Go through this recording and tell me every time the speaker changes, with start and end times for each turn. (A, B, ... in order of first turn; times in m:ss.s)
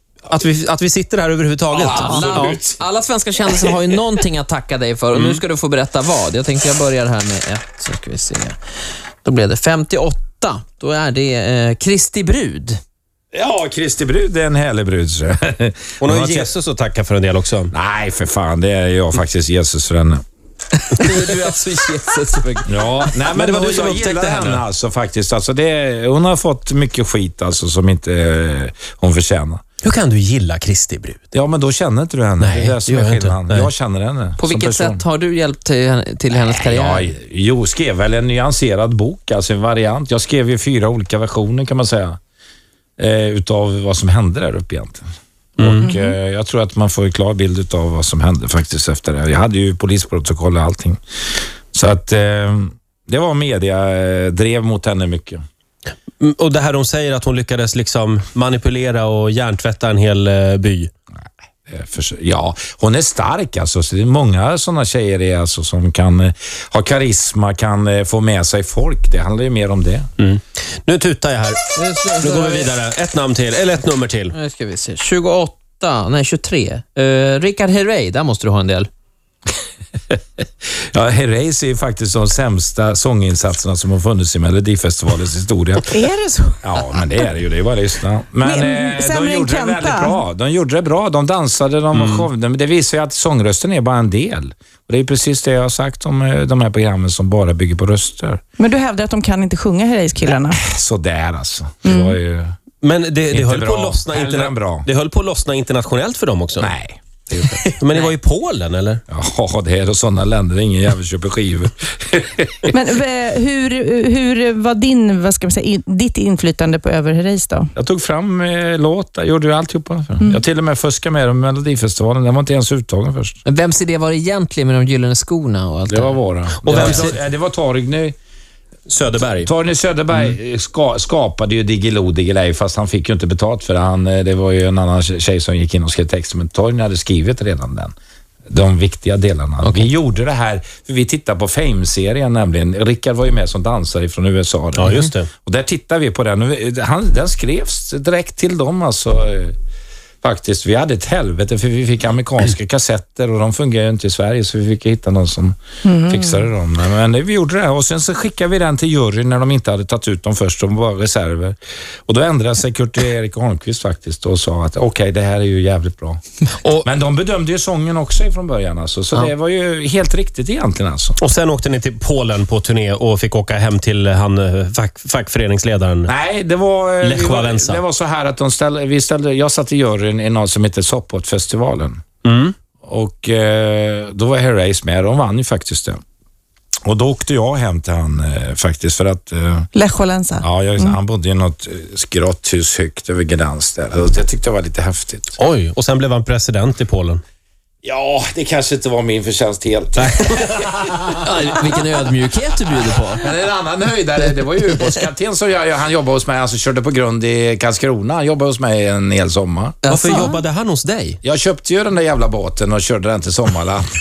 0:00.3-0:02.6 A
0:01.7-0:02.8 B
0:01.9-0:08.6 C
0:03.4-0:04.0 B
0:05.1-0:05.4 A
0:09.2-0:12.8 C
0:13.3-0:16.5 B
0:16.0-0:17.7 A
0:17.7-0:20.2 B
0:20.9-0:22.7 C
0:21.0-0:21.4 A
0:22.6-0:29.6 B
0:23.3-0:24.6 A
0:29.8-0:31.2 A
0:31.3-0:35.0 B
0:32.4-0:33.7 A
0:34.4-0:37.1 C
0:36.3-0:42.2 B
0:43.0-0:45.1 B
0:45.6-0:51.0 B
0:45.6-0:45.8 A
0:51.7-0:55.4 B
0:56.2-1:00.9 A
1:01.7-1:10.1 B
1:10.2-1:14.3 A
1:11.8-1:12.7 C
1:14.3-1:18.9 C
1:20.9-1:26.1 B
1:25.9-1:26.6 D
1:26.6-1:38.4 B
1:28.4-1:30.2 D
1:31.9-1:32.3 A
1:38.6-1:40.6 D
1:40.3-1:42.6 B
1:41.8-1:42.2 D
1:42.8-1:46.7 A
1:43.3-1:44.9 B
1:46.6-1:48.0 B
1:47.8-1:49.0 A
1:49.1-1:52.7 B
1:52.7-1:57.7 D
1:57.8-2:03.4 B
2:03.4-2:07.1 C
2:05.9-2:08.2 B
2:06.6-2:07.2 A
2:08.9-2:09.5 A
2:09.4-2:17.9 B
2:18.5-2:29.6 B
2:19.6-2:19.9 C
2:24.8-2:25.3 A
2:30.2-2:46.2 B
2:35.8-2:36.3 D
2:46.8-2:51.2 B
2:51.2-2:56.1 A
2:56.1-3:02.0 B
2:57.0-2:57.8 A
3:02.2-3:02.5 A
3:02.8-3:06.0 B
3:06.8-3:09.7 B
3:09.7-3:11.0 D
3:10.4-3:15.4 B
3:15.4-3:17.2 A
3:17.8-3:21.9 B
3:21.2-3:23.3 C
3:22.7-3:29.8 B
3:29.8-3:30.3 C
3:29.9-3:31.2 A
3:31.2-3:33.8 B